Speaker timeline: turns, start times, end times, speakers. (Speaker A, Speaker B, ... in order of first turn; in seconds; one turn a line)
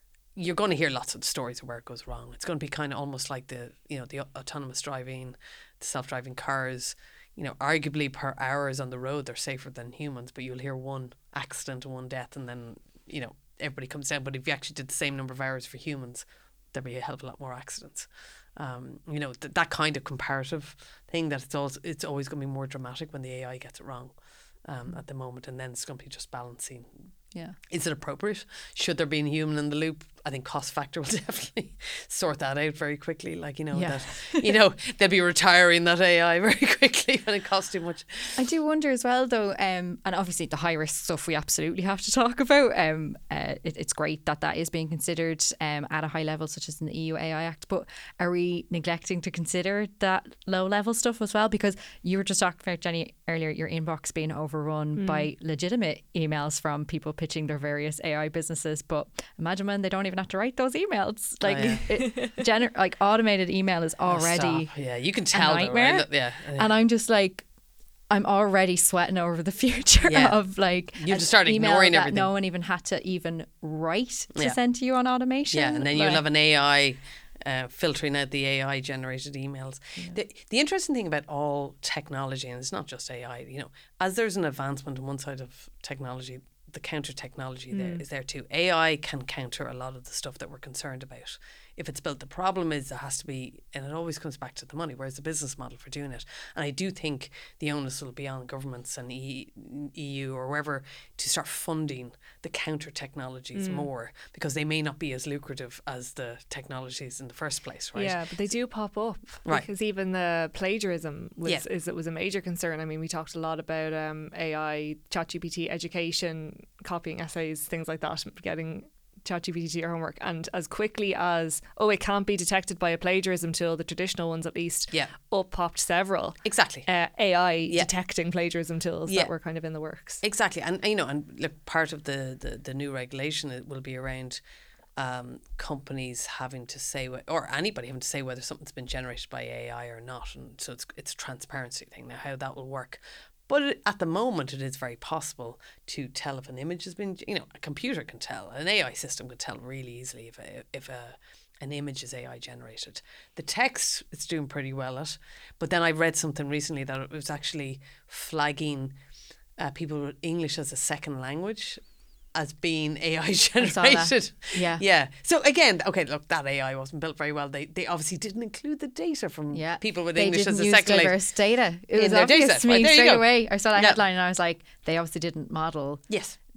Speaker A: 0.3-27.1
Speaker A: 27.7-38.4
Speaker B: 33.7-34.5
Speaker B: 38.4-64.7
Speaker C: 55.0-55.3
Speaker A: 61.4-61.9
Speaker A: 64.1-66.7
Speaker B: 65.3-67.5
Speaker B: 68.1-76.2
Speaker A: 70.1-70.4
Speaker A: 71.0-72.3
Speaker A: 75.5-108.2
Speaker C: 87.7-88.0
Speaker C: 103.5-103.9
Speaker C: 108.0-130.2
Speaker A: 126.4-126.9
Speaker A: 129.1-129.3
Speaker A: 130.2-134.4
Speaker A: 135.0-159.0
Speaker A: 159.6-161.8
Speaker A: 162.3-171.2
Speaker B: 163.6-164.8
Speaker B: 169.5-176.1
Speaker A: 171.9-174.0
Speaker A: 176.1-176.4